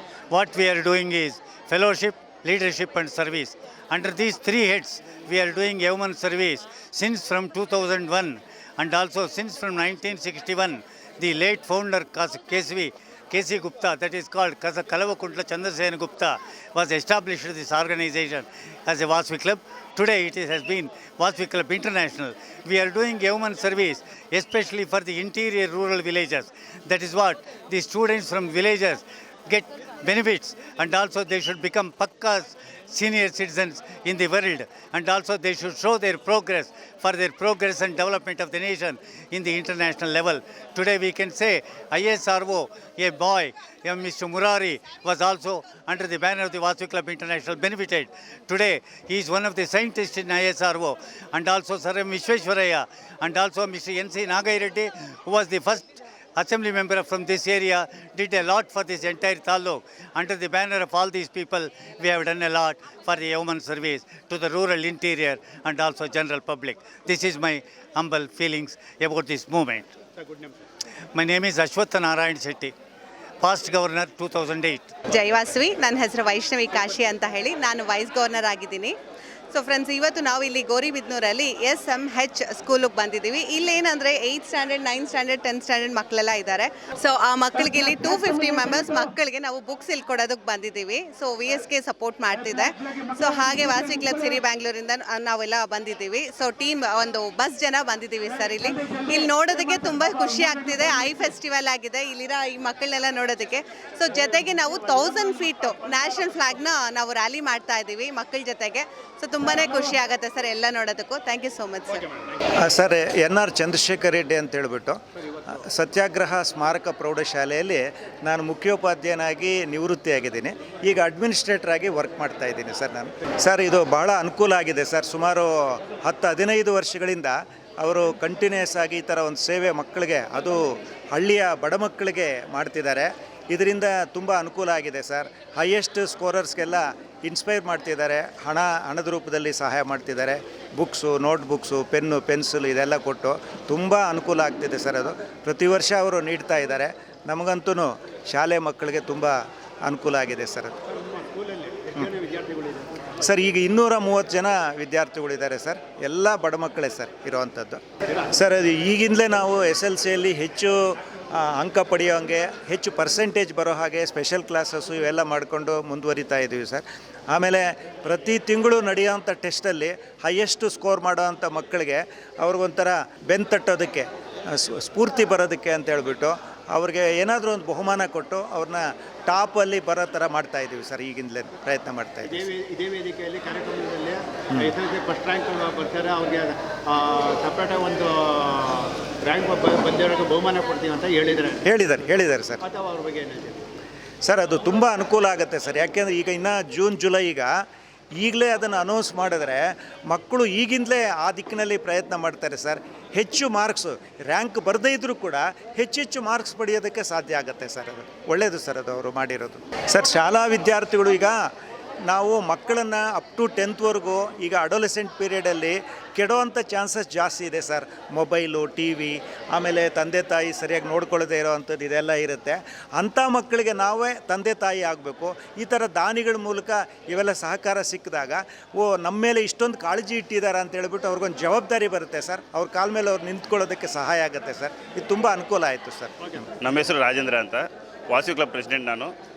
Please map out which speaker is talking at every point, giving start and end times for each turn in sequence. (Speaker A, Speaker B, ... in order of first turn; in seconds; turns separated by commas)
Speaker A: 0.3-69.9, Speaker B: 70.2-70.6, Speaker A: 71.2-72.7, Speaker A: 73.4-74.9, Speaker C: 75.1-79.0, Speaker C: 79.5-112.0, Speaker D: 112.6-125.5, Speaker D: 126.0-130.6, Speaker D: 131.1-150.7, Speaker B: 151.2-152.9, Speaker D: 153.2-157.8, Speaker D: 158.3-160.7, Speaker D: 161.4-182.5, Speaker B: 182.3-191.6, Speaker D: 191.7-192.6, Speaker B: 192.6-193.6, Speaker D: 194.2-197.5, Speaker D: 198.2-211.4, Speaker D: 212.1-236.4, Speaker E: 236.6-239.1